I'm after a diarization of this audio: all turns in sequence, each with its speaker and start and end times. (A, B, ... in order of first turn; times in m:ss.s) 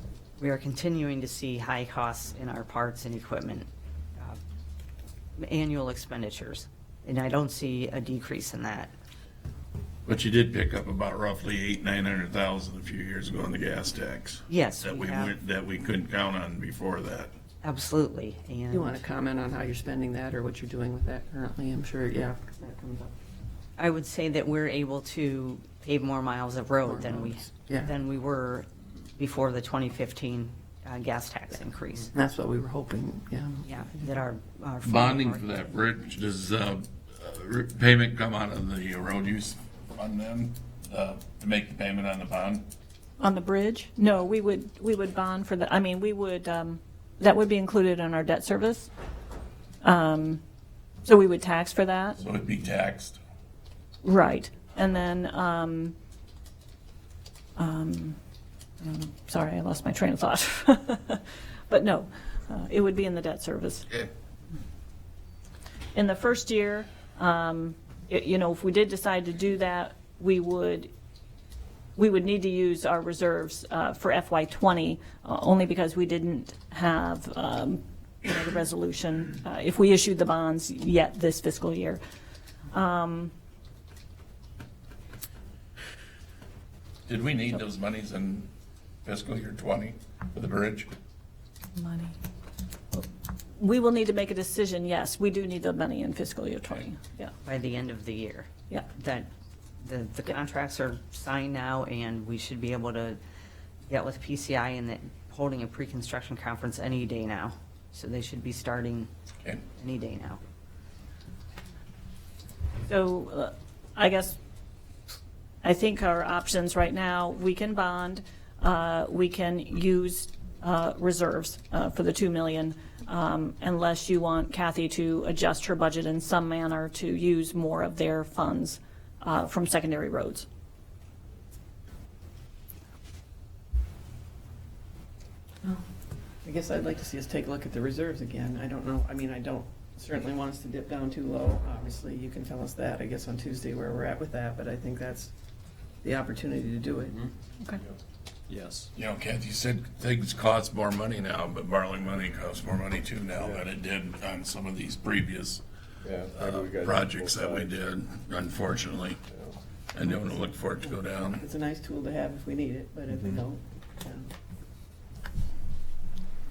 0:00.4-0:04.4 A
0:05.4-0:08.9 A
0:10.0-0:17.3 B
0:14.5-0:15.3 A
0:17.6-0:19.0 A
0:18.7-0:23.1 C
0:23.8-0:32.1 A
0:26.8-0:27.9 C
0:32.1-0:34.2 C
0:33.6-0:35.7 A
0:34.8-0:42.6 B
0:43.2-0:48.9 D
0:49.8-0:50.4 D
0:51.0-0:52.2 D
0:52.2-0:53.2 B
0:54.0-0:55.9 D
0:57.6-0:58.2 D
0:58.8-1:03.8 D
1:05.9-1:10.9 D
1:12.0-1:22.0 D
1:22.7-1:23.3 D
1:27.1-1:28.5 B
1:29.0-1:30.9 B
1:31.8-1:32.1 D
1:33.6-1:37.3 D
1:37.4-1:39.3 A
1:39.8-1:43.2 A
1:43.9-1:49.1 A
1:49.8-1:50.4 A
1:52.9-1:54.4 D
1:55.6-2:10.5 D
2:16.4-2:25.3 C
2:26.0-2:27.3 C
2:28.9-2:35.6 B
2:33.3-2:33.6 E
2:36.0-2:37.8 E
2:36.3-2:39.2 B
2:39.3-2:39.5 E
2:39.9-2:41.4 B
2:40.0-2:44.3 C